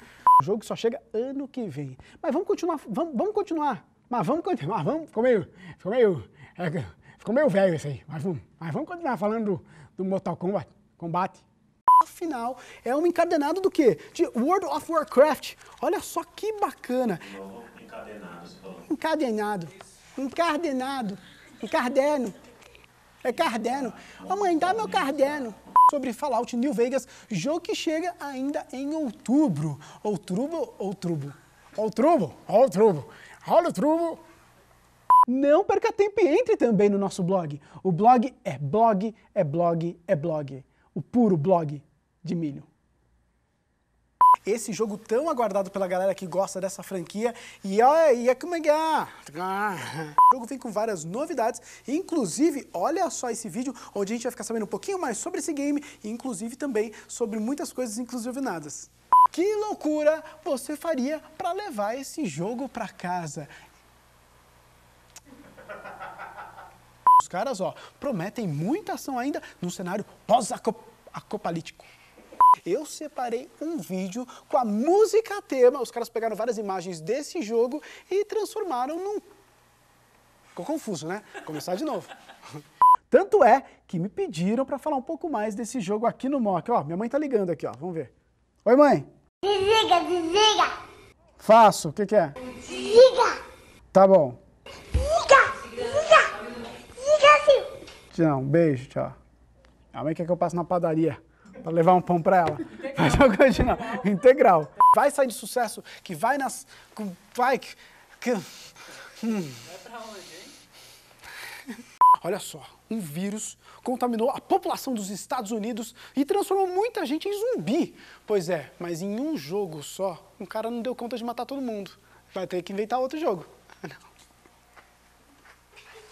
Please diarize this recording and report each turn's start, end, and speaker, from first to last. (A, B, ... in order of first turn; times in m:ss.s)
0:00.4-0:11.4 A
0:12.0-0:17.4 A
0:17.7-0:18.6 B
0:18.7-0:22.4 A
0:23.2-0:34.2 A
0:35.2-0:42.7 A
0:44.4-1:03.5 A
1:07.2-1:11.9 A
1:12.6-1:19.2 A
1:20.5-1:22.1 A
1:23.1-1:28.1 A
1:28.6-1:29.1 A
1:29.4-1:30.7 B
1:31.4-1:32.4 A
1:32.6-1:33.4 B
1:33.9-1:34.4 A
1:35.0-1:37.7 B
1:38.1-1:39.2 A
1:39.9-1:48.5 A
1:49.0-1:49.8 A
1:51.7-2:04.0 A